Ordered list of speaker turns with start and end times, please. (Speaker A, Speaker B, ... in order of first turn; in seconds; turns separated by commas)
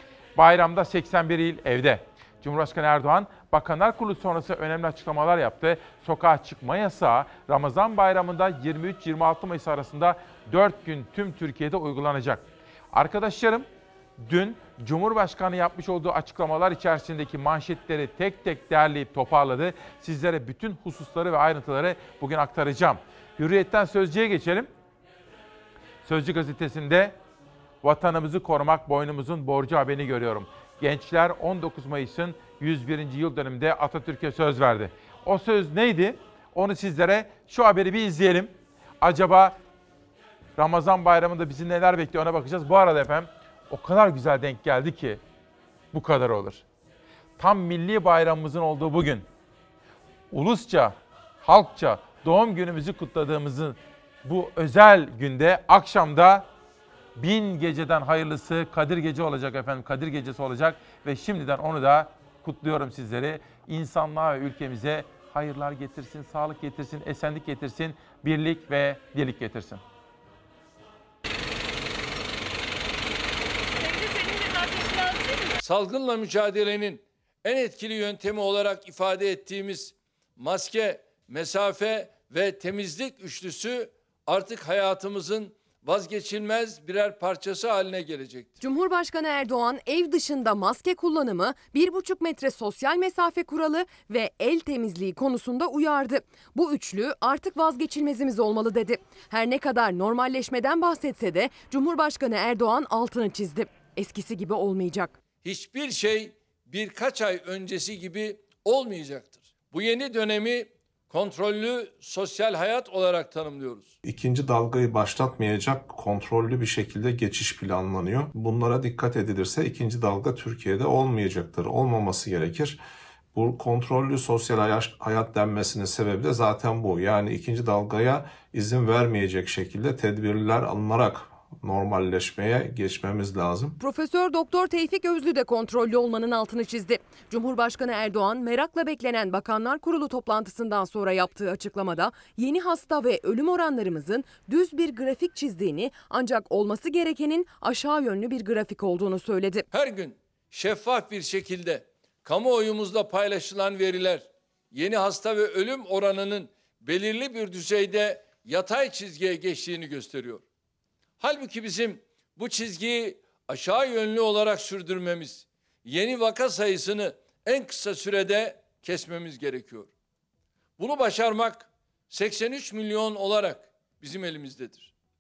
Speaker A: 0.4-13.7, Speaker A: 14.2-24.7, Speaker A: 26.0-27.2, Speaker A: 27.8-39.6, Speaker A: 40.6-45.2, Speaker A: 45.9-46.6, Speaker A: 47.4-49.3, Speaker A: 50.3-56.5, Speaker A: 57.2-69.8, Speaker B: 75.6-88.6, Speaker C: 88.6-105.2, Speaker B: 105.4-113.9, Speaker D: 114.0-122.8, Speaker D: 123.3-133.8, Speaker C: 133.8-149.7, Speaker B: 149.7-160.4, Speaker B: 161.2-169.9, Speaker B: 170.8-174.9